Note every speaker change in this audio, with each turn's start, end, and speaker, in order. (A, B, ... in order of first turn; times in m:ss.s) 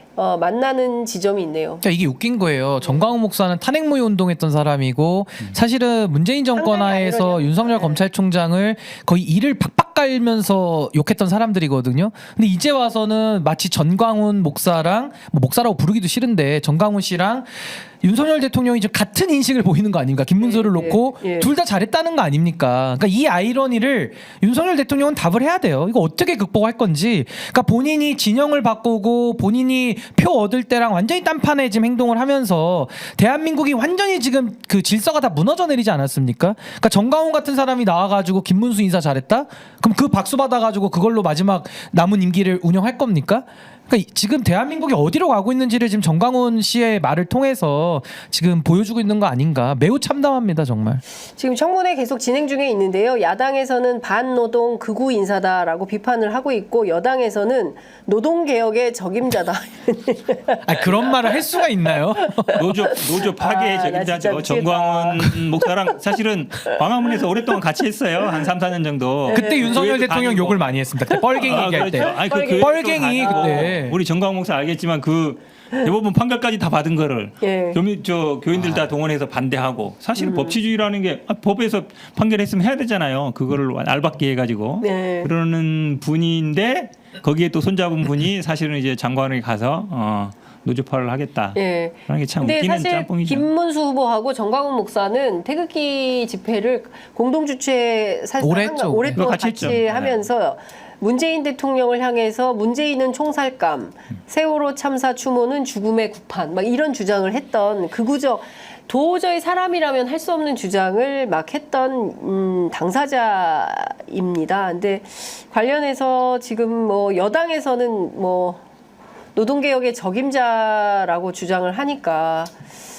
0:00.2-0:01.8 A
0:01.8-0:51.0 B
0:06.6-0:08.0 A
0:20.4-0:21.5 A
0:51.4-1:05.4 A
1:00.6-1:02.7 B
1:02.5-1:10.8 C
1:09.3-1:14.0 B
1:09.3-1:09.9 A
1:11.1-1:13.8 A
1:11.4-1:33.5 C
1:17.4-1:17.8 A
1:20.2-1:20.6 A
1:24.8-1:25.3 A
1:31.6-1:58.6 A
1:38.4-1:39.2 B
1:39.1-1:40.2 C
1:59.4-2:02.5 A